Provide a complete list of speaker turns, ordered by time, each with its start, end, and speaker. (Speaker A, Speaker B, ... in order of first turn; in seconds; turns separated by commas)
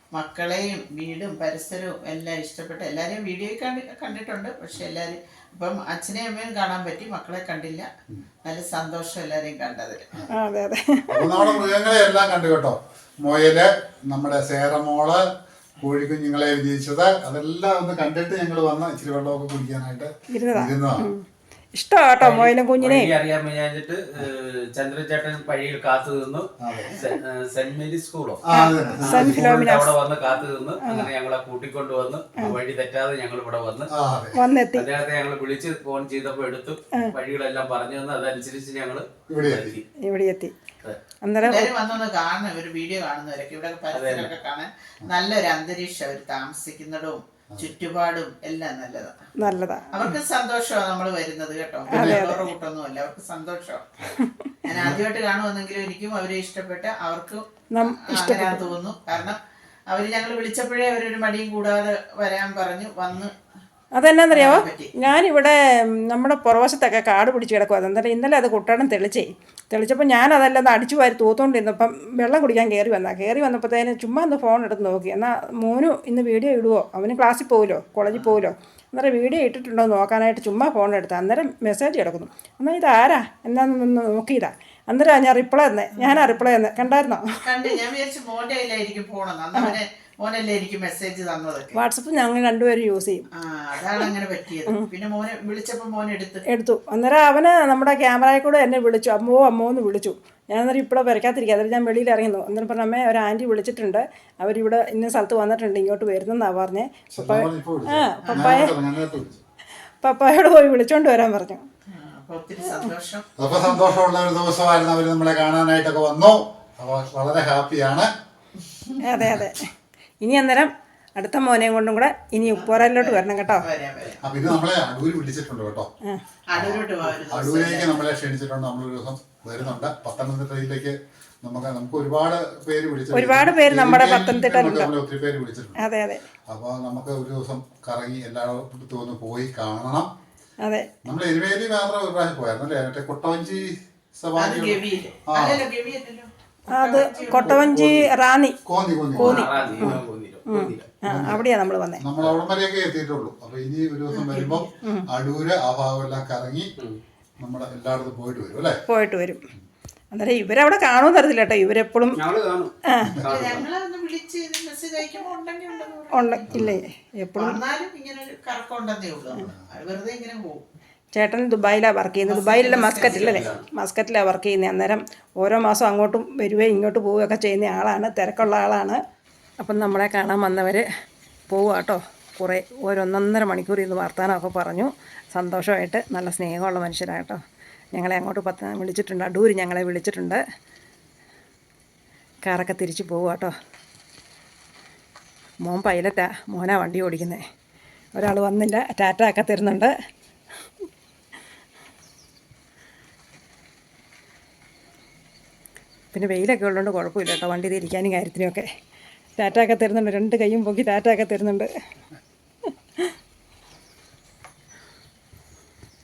Speaker A: 0.1-7.9, Speaker A: 8.4-10.1, Speaker B: 10.3-11.5, Speaker C: 11.1-15.3, Speaker C: 15.8-21.1, Speaker B: 20.3-21.2, Speaker B: 21.8-23.1, Speaker D: 22.2-33.9, Speaker C: 26.6-26.9, Speaker C: 28.4-29.5, Speaker B: 28.5-29.9, Speaker B: 30.8-31.1, Speaker C: 33.9-34.4, Speaker B: 34.3-34.9, Speaker D: 34.7-39.8, Speaker C: 39.3-39.8, Speaker B: 40.0-40.5, Speaker B: 41.2-41.7, Speaker A: 41.4-49.2, Speaker D: 43.9-44.3, Speaker B: 49.4-49.9, Speaker A: 49.9-53.9, Speaker C: 51.9-52.2, Speaker B: 51.9-52.5, Speaker B: 54.1-54.5, Speaker A: 54.6-63.3, Speaker C: 54.7-55.0, Speaker B: 57.7-58.6, Speaker B: 63.9-87.7, Speaker A: 64.3-64.9, Speaker A: 87.4-91.7, Speaker B: 91.7-93.2, Speaker A: 93.3-96.4, Speaker B: 96.5-108.7, Speaker C: 107.1-109.4, Speaker A: 108.2-108.6, Speaker B: 110.0-111.6, Speaker A: 111.9-113.3, Speaker C: 113.4-118.1, Speaker B: 119.0-119.7, Speaker B: 120.2-123.7, Speaker A: 122.4-124.3, Speaker C: 124.2-125.9, Speaker A: 126.5-128.0, Speaker C: 126.5-135.8, Speaker B: 133.1-134.9, Speaker B: 135.8-136.2, Speaker C: 136.5-140.1, Speaker B: 140.6-140.9, Speaker C: 141.0-145.7, Speaker A: 144.3-147.7, Speaker B: 146.7-148.6, Speaker C: 147.3-148.1, Speaker C: 148.7-149.9, Speaker D: 149.2-150.9, Speaker B: 149.2-152.0, Speaker C: 151.0-151.4, Speaker C: 152.0-156.7, Speaker A: 154.3-154.6, Speaker C: 157.4-158.8, Speaker B: 158.9-159.4, Speaker B: 160.1-162.2, Speaker D: 162.2-163.7, Speaker B: 162.9-163.1, Speaker C: 163.1-163.7, Speaker A: 163.3-166.7, Speaker B: 166.1-167.6, Speaker C: 166.5-166.8, Speaker A: 167.3-170.6, Speaker B: 171.1-179.0, Speaker A: 172.2-173.6, Speaker D: 173.0-173.6, Speaker B: 179.6-180.8, Speaker B: 181.5-187.4, Speaker B: 187.9-190.4, Speaker B: 192.4-193.5, Speaker B: 195.6-197.4, Speaker B: 198.1-199.9, Speaker B: 206.1-208.7, Speaker B: 209.4-211.7